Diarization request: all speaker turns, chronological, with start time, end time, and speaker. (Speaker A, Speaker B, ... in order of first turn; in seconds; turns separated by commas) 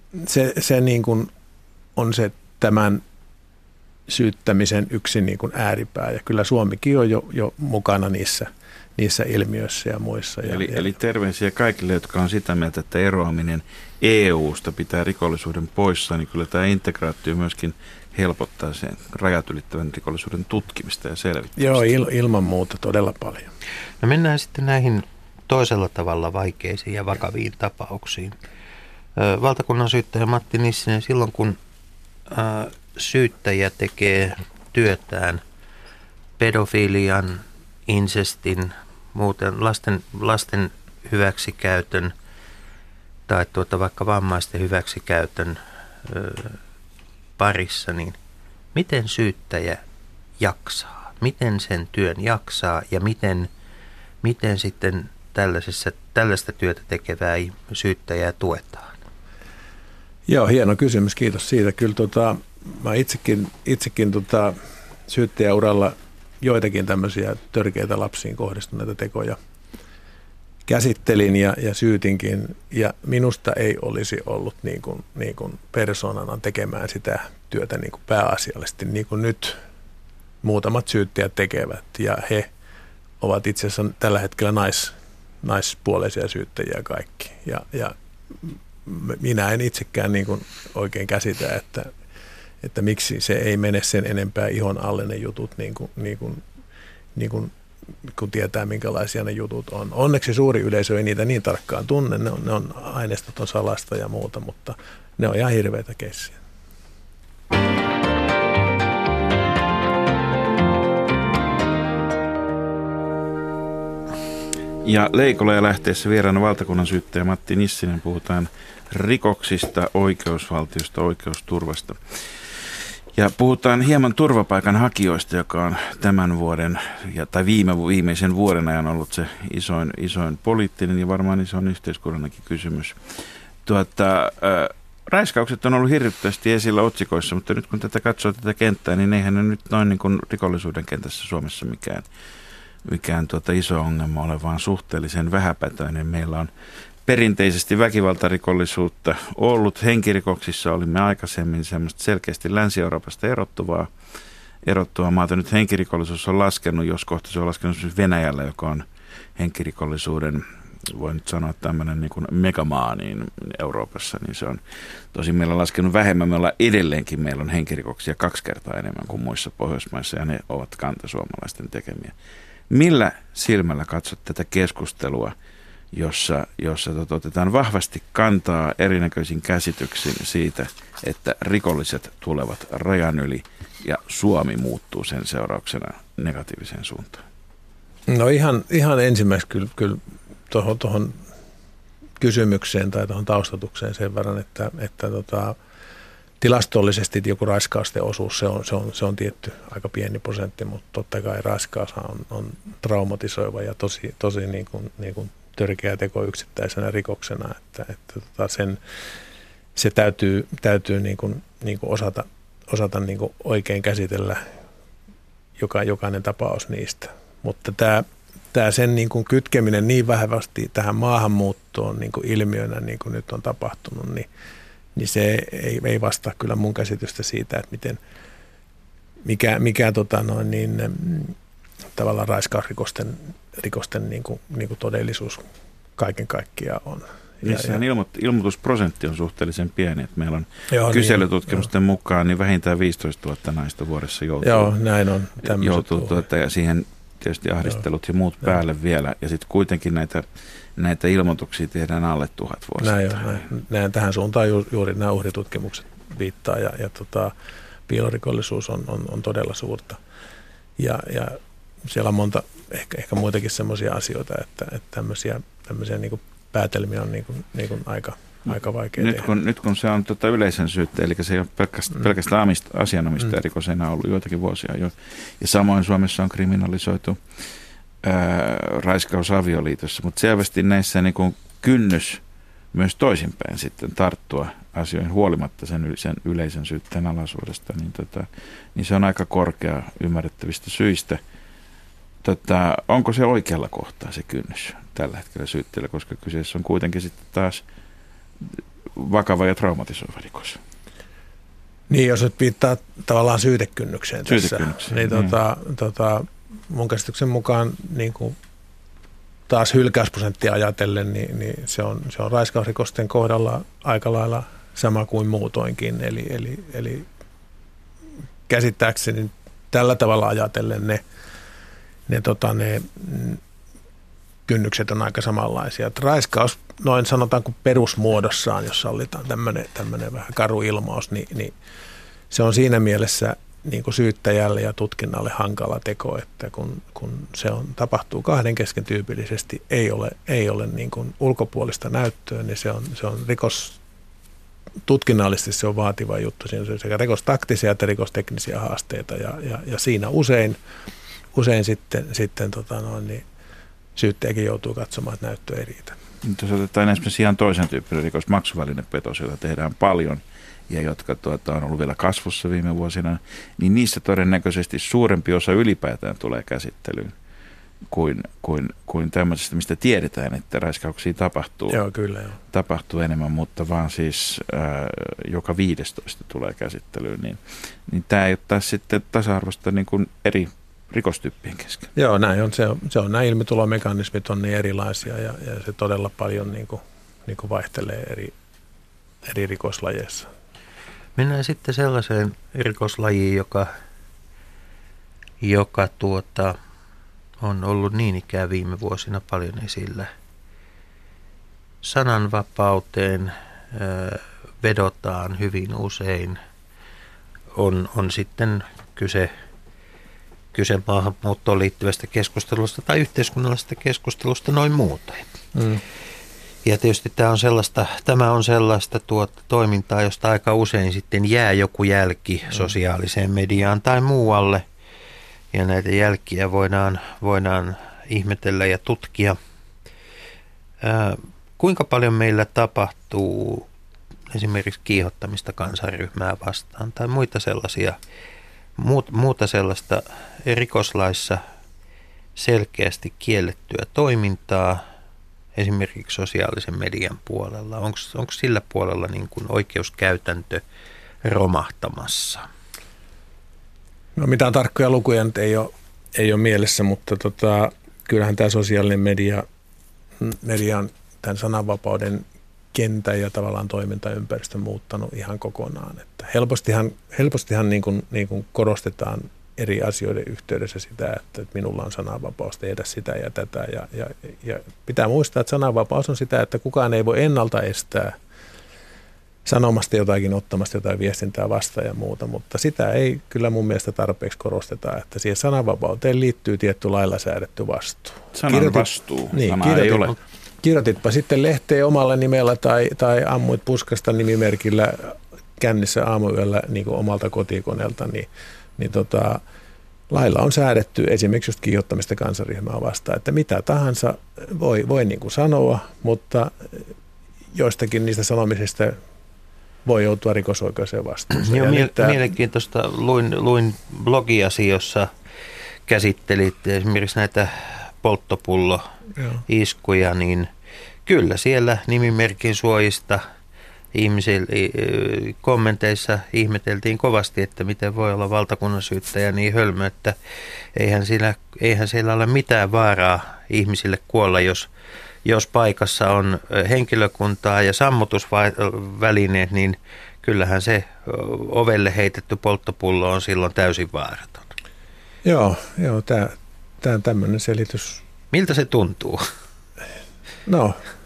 Speaker A: 0.1-1.3, Speaker A: 2.0-3.0, Speaker A: 4.1-10.9, Speaker B: 10.4-21.9, Speaker A: 21.6-23.5, Speaker C: 24.0-28.4, Speaker C: 29.2-31.6, Speaker C: 32.3-35.4, Speaker C: 36.4-42.1, Speaker C: 43.3-46.6, Speaker C: 47.4-48.2, Speaker C: 48.8-49.8, Speaker C: 50.4-53.5, Speaker C: 54.2-59.0, Speaker A: 60.3-64.5, Speaker A: 65.1-69.4, Speaker A: 70.7-79.6, Speaker A: 80.4-82.5, Speaker A: 83.2-91.9, Speaker A: 92.6-96.4, Speaker A: 97.2-97.5, Speaker A: 98.1-106.4, Speaker B: 114.8-122.2, Speaker B: 123.2-133.0, Speaker B: 133.7-142.1, Speaker B: 142.8-146.5, Speaker B: 147.1-153.9, Speaker B: 154.7-158.8, Speaker B: 159.4-164.6, Speaker B: 165.1-172.1, Speaker B: 172.7-175.3, Speaker B: 175.9-187.2, Speaker A: 188.1-191.2, Speaker A: 192.2-195.6, Speaker A: 196.4-208.8, Speaker A: 209.8-214.4, Speaker A: 215.6-224.3, Speaker A: 225.0-228.0, Speaker A: 229.2-231.3, Speaker A: 232.0-235.4, Speaker A: 236.0-237.8, Speaker B: 237.4-244.7, Speaker A: 240.7-241.7, Speaker A: 244.4-246.2, Speaker B: 245.4-253.4, Speaker A: 252.8-257.3, Speaker A: 257.9-260.0, Speaker A: 260.8-269.3, Speaker B: 268.5-277.2, Speaker B: 278.0-282.2, Speaker B: 282.7-291.2, Speaker B: 292.2-297.6, Speaker B: 298.5-300.6, Speaker A: 301.9-308.4, Speaker B: 304.3-305.3, Speaker A: 309.5-317.1, Speaker A: 318.5-321.0, Speaker A: 322.1-323.4, Speaker A: 324.5-331.5, Speaker A: 332.3-343.8, Speaker A: 344.9-350.6, Speaker A: 351.3-353.2, Speaker A: 354.0-356.0, Speaker B: 356.2-367.1, Speaker B: 367.9-371.8, Speaker A: 371.7-372.4, Speaker B: 372.5-381.9, Speaker A: 381.9-388.3, Speaker A: 389.2-390.3, Speaker C: 391.2-393.7, Speaker C: 395.4-396.6, Speaker C: 397.4-400.1, Speaker C: 401.8-406.4, Speaker C: 407.6-409.3, Speaker C: 410.5-415.2, Speaker A: 415.6-415.8, Speaker C: 416.6-424.6, Speaker C: 425.5-429.4, Speaker C: 430.8-433.7, Speaker C: 434.3-438.0, Speaker C: 438.8-441.4, Speaker C: 442.4-444.8, Speaker C: 445.6-450.6, Speaker C: 451.2-452.5, Speaker A: 454.2-459.5, Speaker A: 460.2-478.1, Speaker A: 479.4-499.4, Speaker B: 488.3-490.2, Speaker A: 500.1-506.9, Speaker A: 507.5-509.0, Speaker A: 509.9-512.2, Speaker C: 511.4-515.1, Speaker C: 515.9-518.9, Speaker C: 519.5-520.5, Speaker C: 521.1-523.2, Speaker C: 523.9-530.2, Speaker C: 530.8-534.7, Speaker C: 535.2-544.5, Speaker A: 545.2-548.0, Speaker C: 548.3-549.2, Speaker A: 550.5-550.8